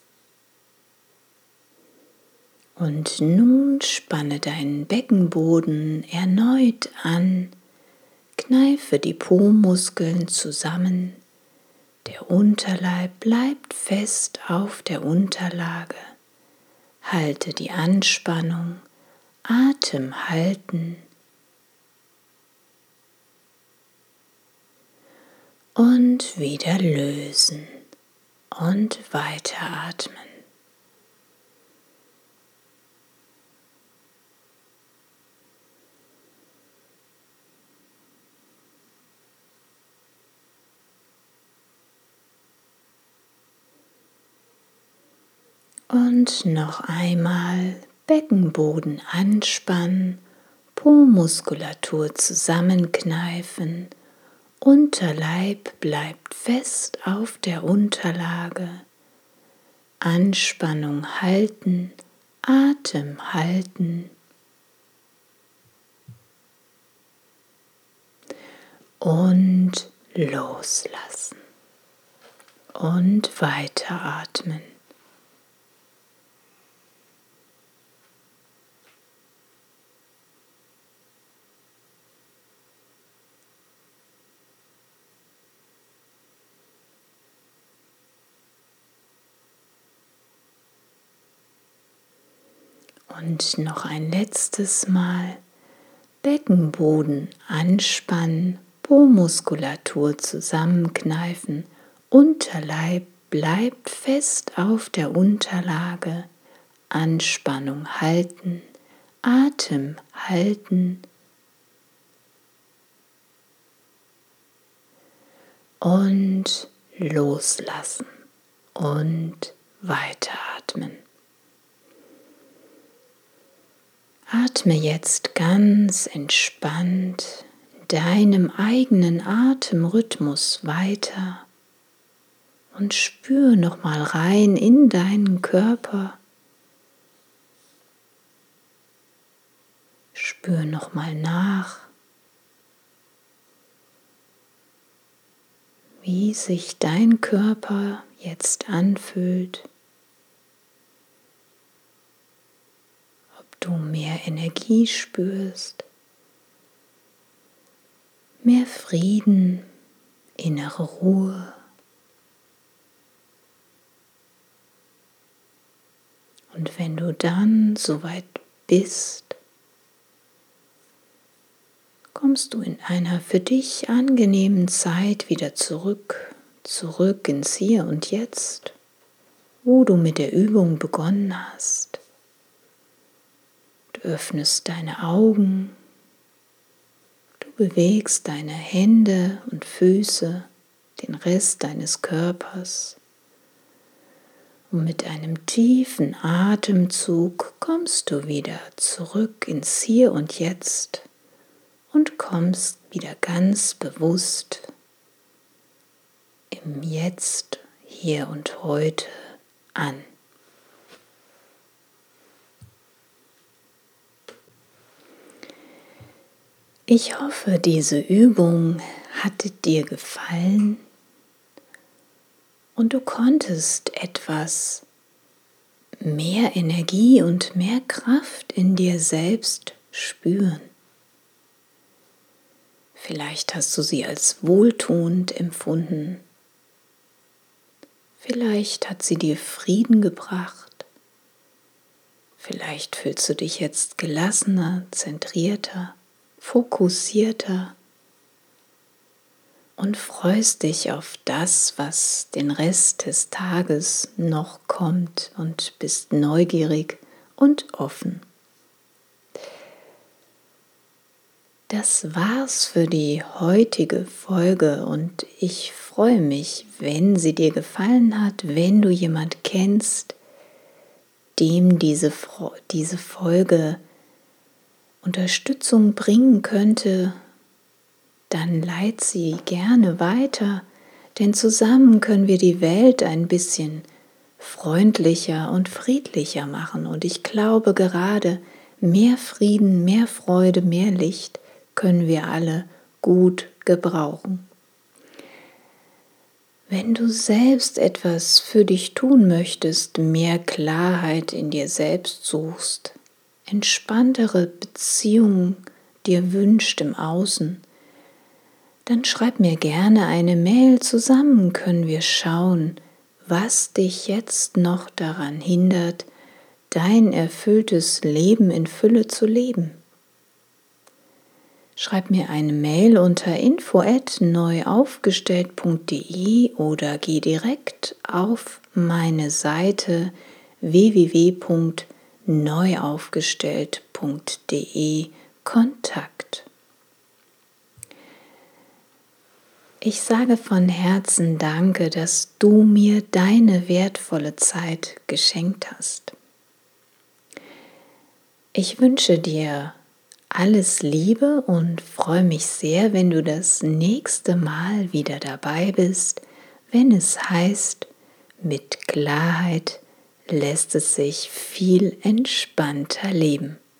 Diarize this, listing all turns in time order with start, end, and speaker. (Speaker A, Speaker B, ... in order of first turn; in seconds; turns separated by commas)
Speaker A: 2.8-7.5, Speaker A: 8.4-11.2, Speaker A: 12.0-16.1, Speaker A: 17.0-18.8, Speaker A: 19.4-21.0, Speaker A: 25.8-27.8, Speaker A: 28.5-30.4, Speaker A: 45.9-50.2, Speaker A: 50.7-53.9, Speaker A: 54.6-58.8, Speaker A: 60.0-64.1, Speaker A: 69.0-71.4, Speaker A: 72.8-74.7, Speaker A: 93.1-95.4, Speaker A: 96.2-106.3, Speaker A: 106.9-108.7, Speaker A: 109.2-111.0, Speaker A: 115.8-118.1, Speaker A: 118.7-121.0, Speaker A: 124.3-131.4, Speaker A: 132.7-136.2, Speaker A: 140.1-141.9, Speaker A: 146.0-149.7, Speaker A: 153.4-155.8, Speaker A: 158.4-159.7, Speaker A: 160.4-161.6, Speaker A: 166.5-169.4, Speaker A: 172.1-178.7, Speaker A: 179.6-182.0, Speaker A: 183.9-185.8, Speaker A: 187.4-193.0, Speaker A: 194.7-201.1, Speaker A: 201.9-204.7, Speaker A: 206.5-209.1, Speaker A: 209.8-210.1, Speaker A: 216.9-220.8, Speaker A: 222.8-224.8, Speaker A: 226.0-230.7, Speaker A: 232.9-236.2, Speaker A: 238.2-240.8, Speaker A: 242.4-247.8, Speaker A: 249.8-258.2, Speaker A: 261.7-270.1, Speaker A: 271.4-273.8, Speaker A: 275.0-277.2, Speaker A: 278.3-283.9, Speaker A: 284.4-294.4, Speaker A: 296.7-302.9, Speaker A: 303.5-307.6, Speaker A: 308.9-316.1, Speaker A: 316.7-319.8, Speaker A: 321.8-336.5, Speaker A: 339.8-346.1, Speaker A: 348.5-349.8, Speaker A: 350.3-357.9, Speaker A: 358.4-363.6